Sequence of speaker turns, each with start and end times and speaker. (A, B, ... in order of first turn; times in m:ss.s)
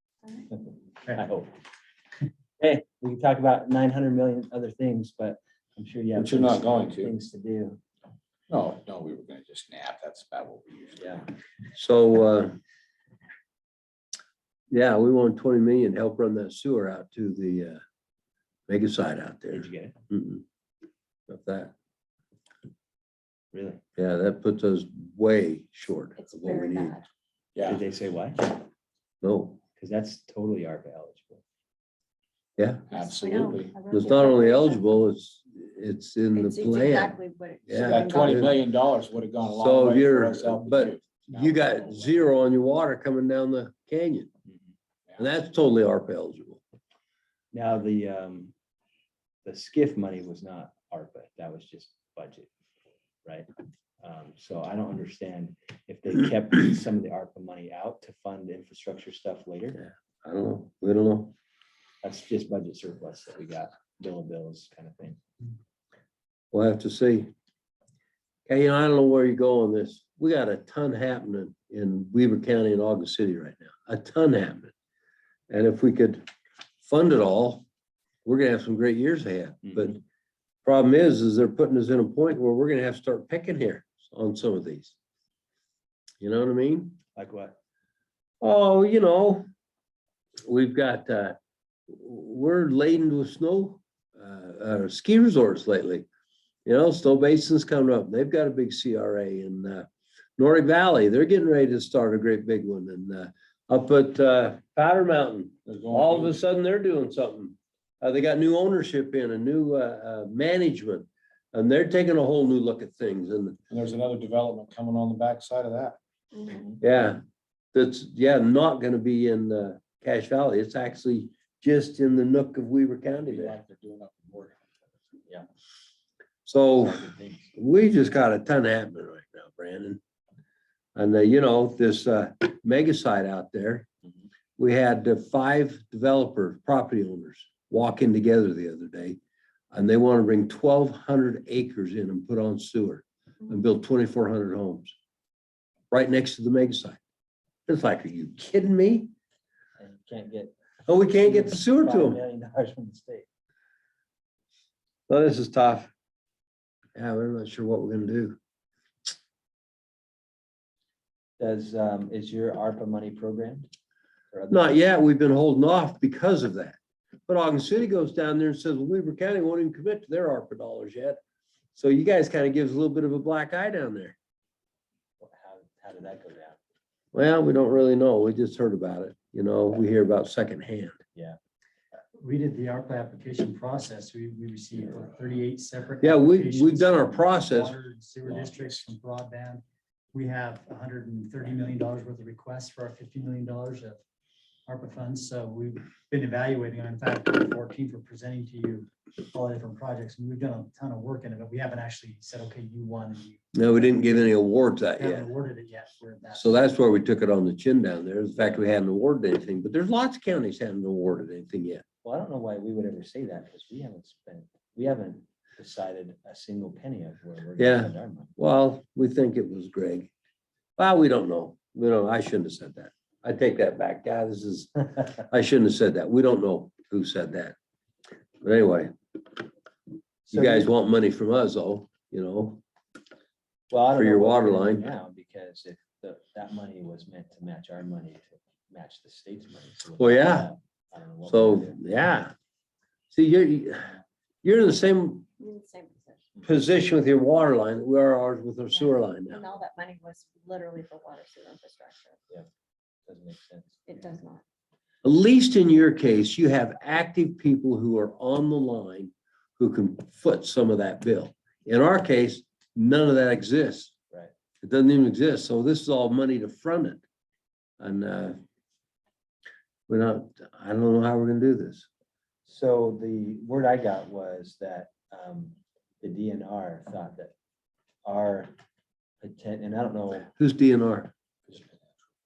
0:00.5-0:01.5 A
0:02.6-0:07.8 A
0:06.2-0:07.1 B
0:08.5-0:11.3 B
0:11.0-0:11.3 A
0:11.8-0:12.6 C
0:14.7-0:17.8 C
0:18.7-0:20.4 C
0:19.5-0:20.0 A
0:21.3-0:21.7 C
0:23.5-0:23.8 A
0:24.0-0:27.0 C
0:26.2-0:27.1 D
0:27.6-0:27.8 B
0:27.6-0:28.6 A
0:29.2-0:29.6 C
0:29.8-0:31.4 A
0:32.6-0:32.8 C
0:32.9-0:34.5 B
0:32.9-0:34.8 D
0:33.9-0:37.2 C
0:36.3-0:38.6 D
0:37.7-0:38.6 C
0:37.8-0:42.2 B
0:39.5-0:44.3 C
0:45.2-0:46.6 C
0:47.5-0:48.5 A
0:49.4-0:52.5 A
0:54.0-0:59.8 A
0:59.8-1:01.3 C
1:02.0-1:05.2 A
1:06.5-1:07.3 C
1:08.5-1:14.7 C
1:15.5-1:16.3 C
1:16.8-1:17.6 C
1:18.2-1:20.0 C
1:19.7-1:20.0 A
1:20.6-1:25.0 C
1:26.2-1:27.0 C
1:27.2-1:27.6 A
1:28.4-1:29.5 C
1:30.4-1:31.4 C
1:31.9-1:36.1 C
1:36.6-1:53.6 C
1:45.7-1:46.4 B
1:53.7-1:56.0 B
1:56.3-1:56.7 D
1:56.8-1:57.2 C
1:57.7-2:03.6 C
2:03.2-2:04.7 B
2:06.4-2:10.0 C
2:06.8-2:07.5 A
2:11.0-2:13.9 C
2:14.6-2:19.2 C
2:19.7-2:24.9 C
2:25.9-2:27.0 C
2:27.7-2:29.1 C
2:29.8-2:33.3 A
2:30.9-2:32.2 C
2:35.1-2:35.9 C
2:37.0-2:38.4 C
2:41.4-2:43.7 A
2:44.3-2:44.8 A
2:44.5-2:51.2 C
2:51.8-2:54.2 C
2:55.2-2:56.6 A
2:57.1-3:01.0 C
3:02.2-3:09.6 E
3:06.0-3:07.8 C
3:08.3-3:08.9 B
3:10.1-3:14.0 E
3:14.7-3:24.3 E
3:23.6-3:25.3 C
3:25.0-3:26.6 E
3:26.3-3:31.8 C
3:32.0-3:38.3 A
3:37.6-3:40.1 C
3:40.8-3:47.6 C
3:48.4-3:48.9 C
3:50.3-3:50.7 A
3:50.3-3:52.6 C
3:53.7-4:01.8 A
3:53.9-3:54.9 C
4:00.0-4:00.5 C
4:01.3-4:02.3 C
4:03.1-4:05.3 C
4:05.4-4:06.3 D
4:06.4-4:09.4 C
4:08.7-4:12.2 D
4:13.1-4:13.9 A
4:13.9-4:14.4 D
4:15.0-4:23.9 C
4:24.6-4:27.0 C
4:27.8-4:28.4 C
4:29.9-4:31.9 C
4:32.5-4:37.3 A
4:38.0-4:38.5 A
4:39.2-4:40.3 A
4:40.4-4:41.1 C
4:41.5-4:42.1 B